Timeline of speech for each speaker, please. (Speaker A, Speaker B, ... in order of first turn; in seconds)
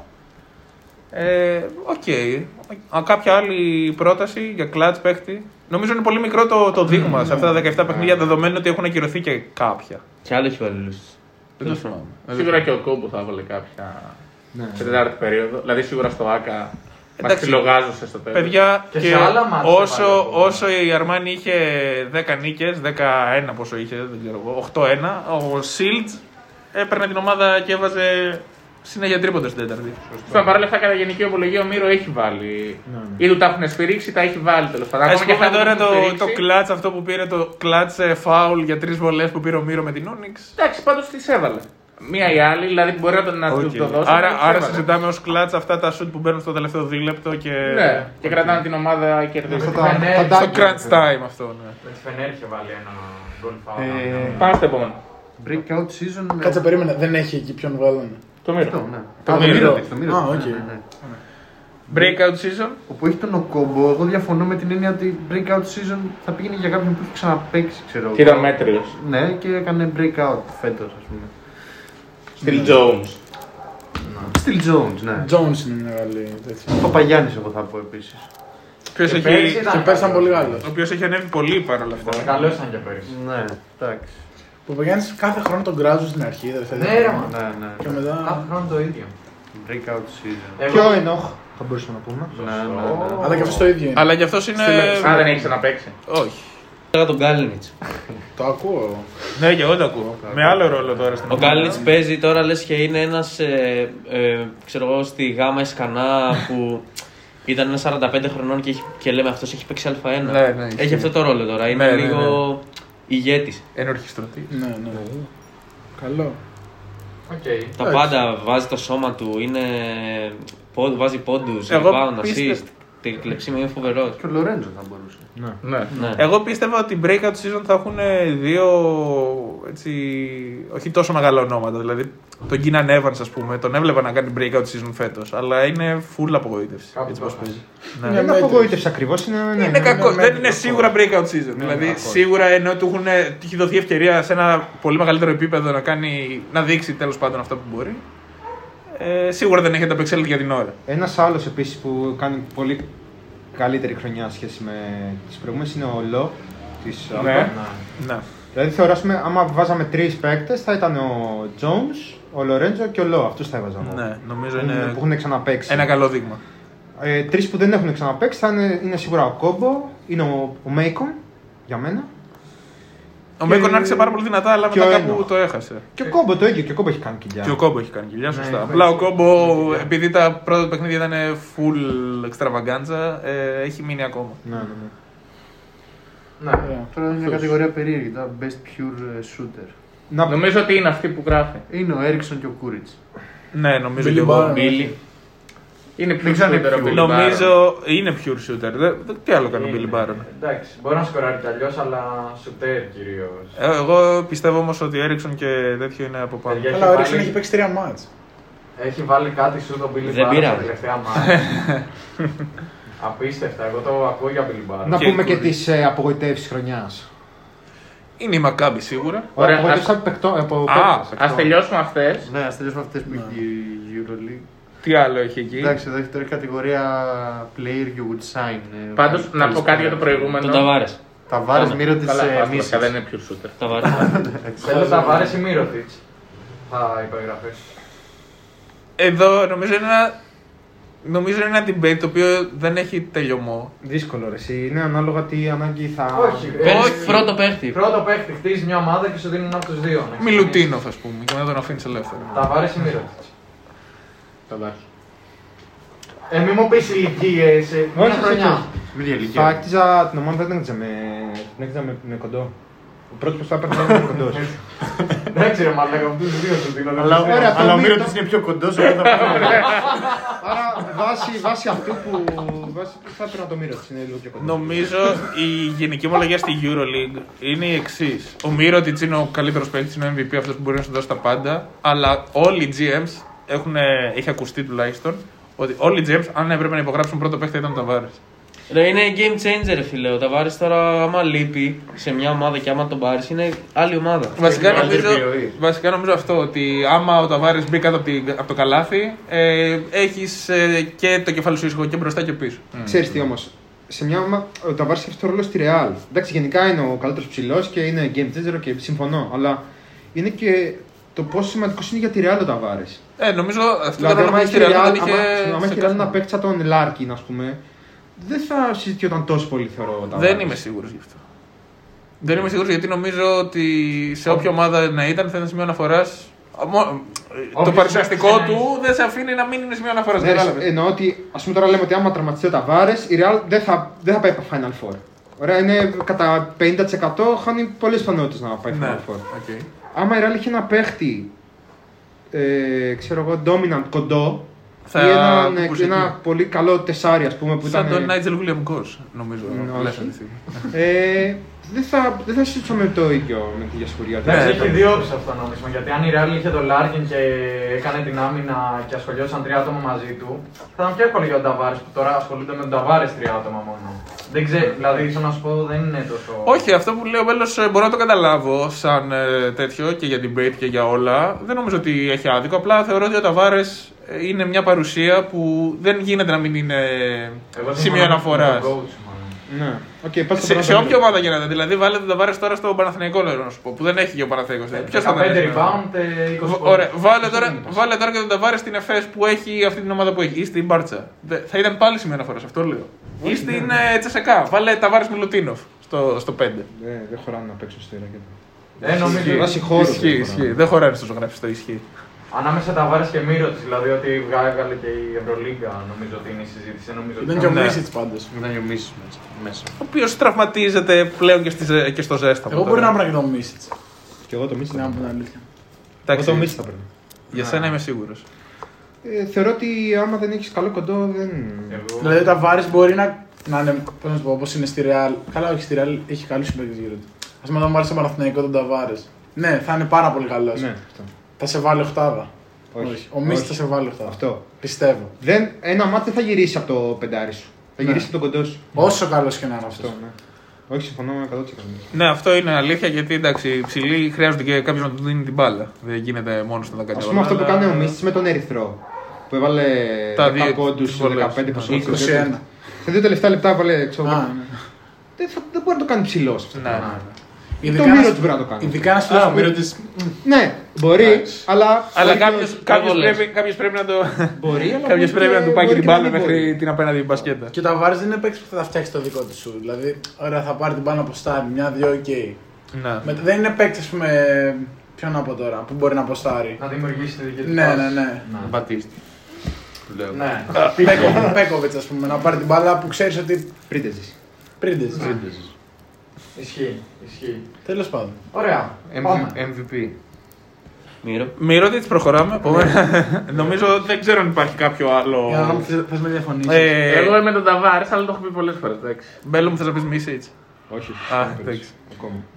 Speaker A: 1.1-10.0, 11.6-12.7, 17.2-17.7, 18.3-26.2, 26.7-30.0, 35.0-40.5, 43.5-48.3, 50.2-51.8, 61.9-62.8, 78.9-79.7, 80.6-82.4, 93.9-95.5, 96.0-96.4, 99.3-101.9, 110.2-112.4, 113.7-114.5, 121.7-122.6, 126.2-138.2, 139.6-148.0, 148.9-150.8, 158.0-158.2, 163.8-165.0, 165.6-166.4, 173.4-175.9, 177.4-184.4, 193.5-194.7, 196.9-200.2, 203.6-206.7, 211.2-211.8, 214.9-215.6, 218.2-219.3, 220.7-221.1, 224.8-225.8, 239.0-240.1, 241.0-243.7, 246.6-247.2, 250.2-252.4, 274.4-288.2, 294.4-302.7, 313.2-316.2, 320.1-321.2, 322.2-330.7, 338.7-339.7, 344.9-346.1, 347.6-350.7, 354.2-354.7, 366.4-378.7, 380.4-385.8, 386.4-396.7, 399.1-401.8, 407.4-407.8, 409.8-412.9, 416.0-416.5, 417.3-418.2, 441.9-447.9, 450.1-452.0, 456.5-457.1, 461.9-467.5, 472.7-473.1, 480.5-481.0, 491.4-495.7, 496.4-497.2, 499.2-500.3, 501.1-501.7
Speaker B: 7.0-8.3, 14.5-15.0, 32.9-33.2, 49.5-51.1, 90.7-92.4, 138.1-140.9, 141.5-142.3, 150.8-152.9, 153.5-157.5, 158.5-166.0, 167.0-172.1, 173.4-175.3, 175.9-177.6, 184.4-184.9, 190.1-190.4, 214.8-217.1, 219.3-221.5, 243.8-247.0, 257.9-258.7, 259.2-262.5, 263.1-264.5, 267.2-268.2, 270.3-275.3, 302.8-313.0, 314.0-317.6, 318.1-320.6, 330.2-339.2, 339.9-341.3, 342.3-348.1, 349.4-350.1, 350.7-355.0, 379.5-381.1, 393.2-393.7, 396.7-400.6, 414.3-415.0, 416.1-417.7, 419.0-421.8, 430.5-431.1, 432.7-434.5, 435.2-439.0, 439.7-440.1, 440.7-441.9, 446.9-454.4, 455.2-457.0, 457.6-462.7, 464.3-466.6, 483.7-484.1, 500.7-502.2
Speaker C: 10.2-11.9, 96.9-97.7, 101.3-106.9, 107.4-113.6, 117.8-124.2, 125.9-126.2, 210.0-210.7, 230.4-231.0, 233.6-234.1, 246.6-247.8, 288.7-294.4, 462.6-463.2, 491.0-491.3
Speaker D: 12.3-14.2, 14.8-18.5, 30.2-36.4, 40.6-44.9, 47.6-50.0, 54.4-55.0, 58.4-59.8, 68.1-68.9, 72.4-73.2, 95.0-95.9, 125.6-125.9, 157.2-157.5, 190.2-191.6, 196.0-197.5, 219.3-219.9, 221.2-222.3, 228.9-230.7, 231.5-233.6, 254.5-254.8, 496.8-499.1
Speaker E: 18.9-20.6, 49.5-50.5, 51.8-54.5, 74.0-74.3, 79.0-80.5, 82.0-83.1, 86.7-87.3, 88.2-89.1, 90.6-91.1, 92.3-93.6, 117.3-117.7, 136.9-137.6, 157.2-157.8, 178.3-179.9, 186.4-186.7, 199.4-203.6, 206.4-207.4, 208.8-211.4, 213.0-215.1, 234.6-236.0, 236.7-237.7, 246.1-250.7, 252.3-253.3, 256.3-258.7, 264.3-267.8, 269.8-270.1, 327.6-328.6, 354.2-366.7, 377.5-379.4, 384.7-387.7, 398.8-399.6, 402.3-407.6, 421.7-422.4, 456.7-457.0, 476.6-478.5, 480.1-480.7, 486.3-487.5, 488.3-489.4
Speaker F: 30.1-30.6, 53.8-54.6, 55.4-56.7, 58.6-60.9, 61.9-62.2, 62.9-71.3, 74.3-75.3, 76.7-78.3, 82.0-82.5, 83.0-84.1, 87.3-88.1, 89.5-90.6, 92.3-93.8, 100.2-101.8, 124.0-125.3, 186.9-189.7, 191.7-192.9, 196.2-197.3, 222.2-224.4, 225.6-230.4, 231.3-232.9, 233.8-235.4, 258.9-259.6, 267.0-270.0, 294.4-295.6, 408.3-409.7, 459.0-460.1, 478.4-479.0, 479.9-481.2, 484.9-485.5, 488.9-489.9
Speaker G: 56.4-58.2, 59.2-61.2, 72.4-72.8, 75.2-77.0, 79.6-80.7, 84.7-88.5, 93.2-95.5, 98.3-99.3, 101.4-101.9, 114.5-115.3, 116.0-116.4, 117.8-118.2, 138.0-138.8, 139.8-140.8, 186.6-187.5, 194.0-194.9, 206.7-208.1, 223.1-223.3, 407.2-408.3, 412.5-413.7, 414.7-415.4, 422.0-430.7, 431.4-435.1, 437.8-438.1, 438.7-439.9, 451.7-452.4, 454.0-454.6, 457.6-459.8, 467.5-472.4, 473.0-476.6, 477.4-478.2, 480.7-483.6, 484.6-485.1, 487.6-488.2, 495.3-496.8